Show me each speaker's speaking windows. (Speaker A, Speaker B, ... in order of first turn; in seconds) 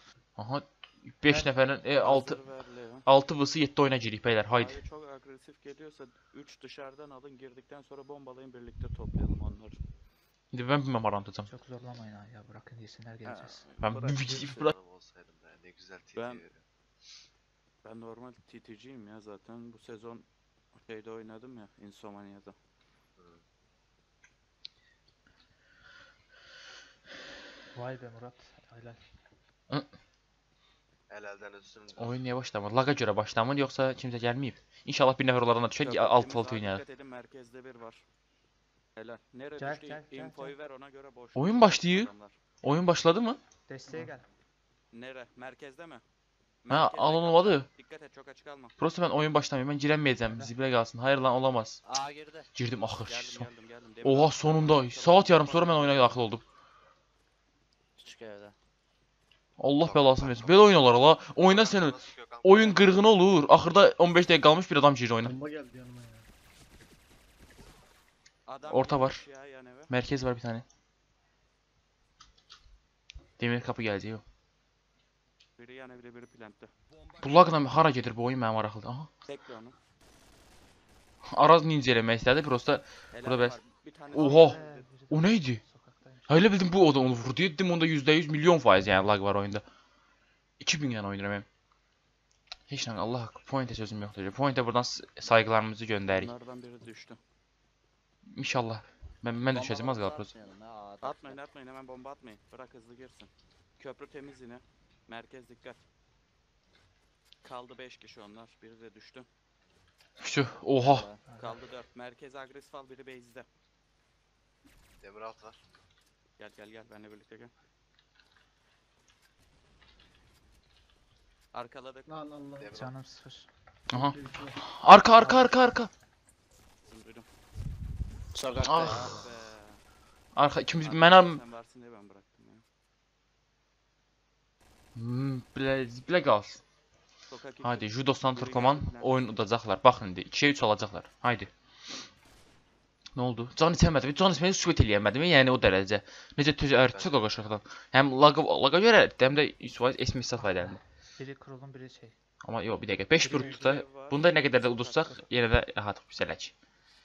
Speaker A: 0.4-2.4, 3.0-4.8, 10.5-11.5, 13.8-14.7, 31.9-36.8, 41.4-42.1, 42.6-43.4, 46.7-47.7, 48.8-51.8, 52.5-53.5, 54.0-56.4, 59.6-65.3, 68.7-69.2, 69.9-70.7, 73.4-74.2, 77.2-79.1, 81.3-83.6, 84.1-84.6, 85.1-85.6, 86.3-89.6, 90.6-91.5, 92.7-96.3, 98.3-100.3, 110.2-111.1, 123.9-125.9, 128.6-129.3, 130.4-131.4, 135.0-136.6, 137.6-141.5, 143.2-150.8, 152.4-156.5
Speaker B: 2.0-3.0, 4.5-9.8, 13.2-14.7, 16.1-16.4, 17.8-20.2, 20.8-22.6, 35.8-38.0, 39.0-42.4, 44.9-46.0, 46.6-48.7, 53.0-56.2, 68.5-69.9, 75.6-76.7, 79.3-79.8, 83.1-84.9, 96.1-97.2, 101.0-105.8, 107.4-109.3, 111.4-113.5, 116.4-117.5, 121.5-122.1, 126.8-127.3, 128.8-129.8, 130.8-132.6, 137.3-139.2, 153.2-155.2
Speaker C: 11.5-13.6, 27.7-29.0, 39.6-40.5, 43.7-44.3, 84.1-86.4, 111.3-111.6, 122.7-123.5, 150.4-152.2
Speaker D: 14.4-16.6, 23.2-23.4, 31.1-32.2, 59.8-60.8, 61.4-63.2, 115.0-115.6, 122.6-122.9, 146.9-147.5
Speaker E: 51.9-52.5, 58.0-58.5, 99.5-101.4, 110.7-111.2, 128.3-129.2
Speaker F: 65.2-66.3, 122.1-122.8, 123.9-125.5